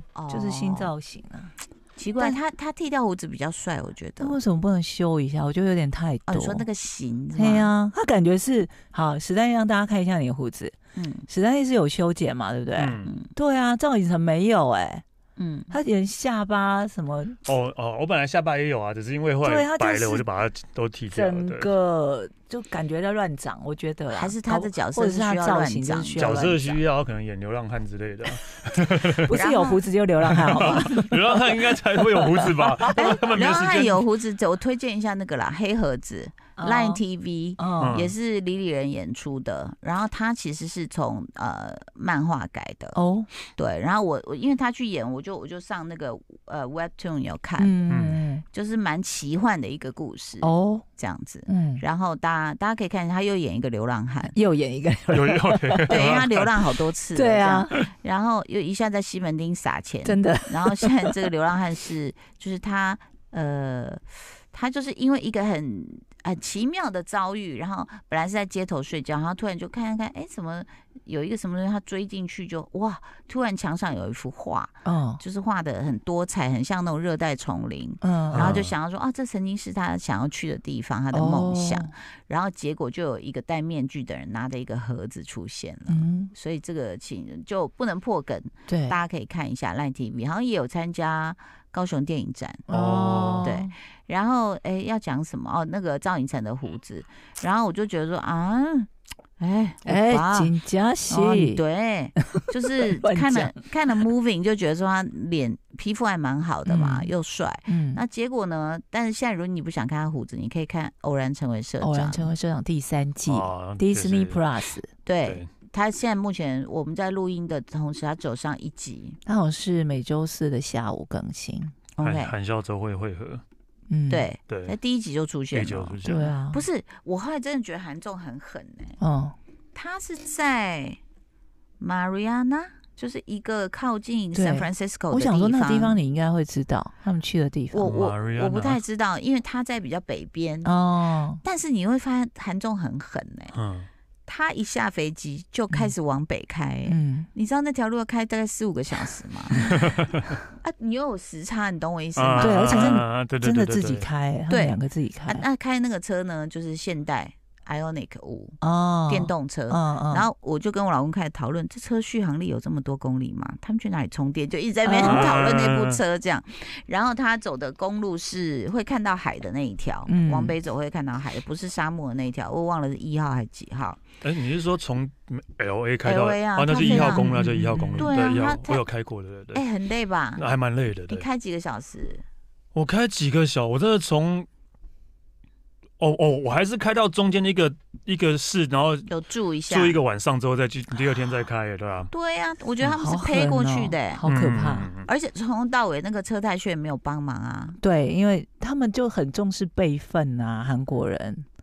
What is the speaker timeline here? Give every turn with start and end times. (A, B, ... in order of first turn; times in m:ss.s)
0:00.2-0:00.9 A
0:00.3-0:01.5 B
0:02.0-0:04.4 A
0:04.2-0:06.7 B
0:06.3-0:07.7 A
0:07.4-0:10.8 B
0:11.0-0:11.3 A
0:11.3-0:15.0 B
0:12.8-0:13.1 C
0:13.0-0:13.3 A
0:15.4-0:15.8 A
0:15.7-0:17.4 B
0:17.4-0:21.7 C
0:19.4-0:20.2 B
0:21.1-0:26.6 B
0:24.1-0:26.8 A
0:26.2-0:29.3 C
0:29.2-0:31.4 B
0:29.3-0:29.8 A
0:30.2-0:34.0 C
0:30.6-0:30.9 A
0:32.6-0:33.1 B
0:32.9-0:43.0 A
0:36.6-0:37.0 B
0:37.6-0:38.0 B
0:37.8-0:38.1 C
0:42.9-0:43.3 B
0:43.5-0:47.7 A
0:47.6-0:48.4 B
0:47.9-0:48.2 C
0:48.5-0:54.4 A
0:50.4-0:50.8 B
0:51.5-0:51.8 B
0:54.2-0:56.0 B
0:55.1-0:56.6 C
0:55.9-1:32.7 A
0:57.2-0:57.8 B
1:00.0-1:01.1 B
1:14.8-1:15.2 B
1:18.0-1:18.6 B
1:18.3-1:18.7 C
1:21.1-1:21.9 B
1:25.9-1:26.3 B
1:28.7-1:29.0 B
1:32.7-1:33.7 B
1:32.7-1:33.5 C
1:33.4-1:40.5 A
1:39.8-1:41.6 B
1:41.1-1:52.3 A
1:42.3-1:43.6 B
1:46.7-1:47.1 B
1:47.7-1:48.0 B
1:51.8-1:54.9 B
1:53.3-1:54.4 C
1:55.0-1:59.2 A
1:59.3-2:01.7 B
2:02.0-2:02.3 A
2:02.0-2:03.4 C
2:03.9-2:04.3 B
2:04.1-2:09.0 A
2:04.5-2:04.7 C
2:05.5-2:06.4 C
2:06.0-2:06.6 B
2:09.0-2:09.4 B
2:09.8-2:11.0 A
2:11.8-2:16.0 A
2:14.3-2:17.9 B
2:17.7-2:20.7 A
2:17.8-2:18.8 C
2:20.6-2:21.4 B
2:21.4-2:23.5 A
2:23.5-2:23.9 C
2:24.3-2:29.9 A
2:26.9-2:27.3 B
2:29.6-2:30.4 C
2:30.6-2:33.0 A
2:32.2-2:34.1 C
2:32.4-2:35.4 B
2:34.5-2:54.0 A
2:38.6-2:40.3 B
2:44.8-2:45.3 B
2:45.0-2:46.0 C
2:50.1-2:50.6 B
2:54.2-2:59.6 C
2:56.0-2:57.3 A
2:56.7-2:58.1 B
2:58.0-2:58.8 A
2:59.5-3:00.5 A
3:00.4-3:01.3 C
3:01.1-3:02.2 A
3:02.8-3:04.5 C
3:06.0-3:09.1 C
3:09.1-3:10.0 A
3:09.7-3:12.1 C
3:12.1-3:14.2 A
3:12.9-3:14.9 B
3:14.3-3:15.1 C
3:15.1-3:17.8 A
3:17.8-3:21.4 B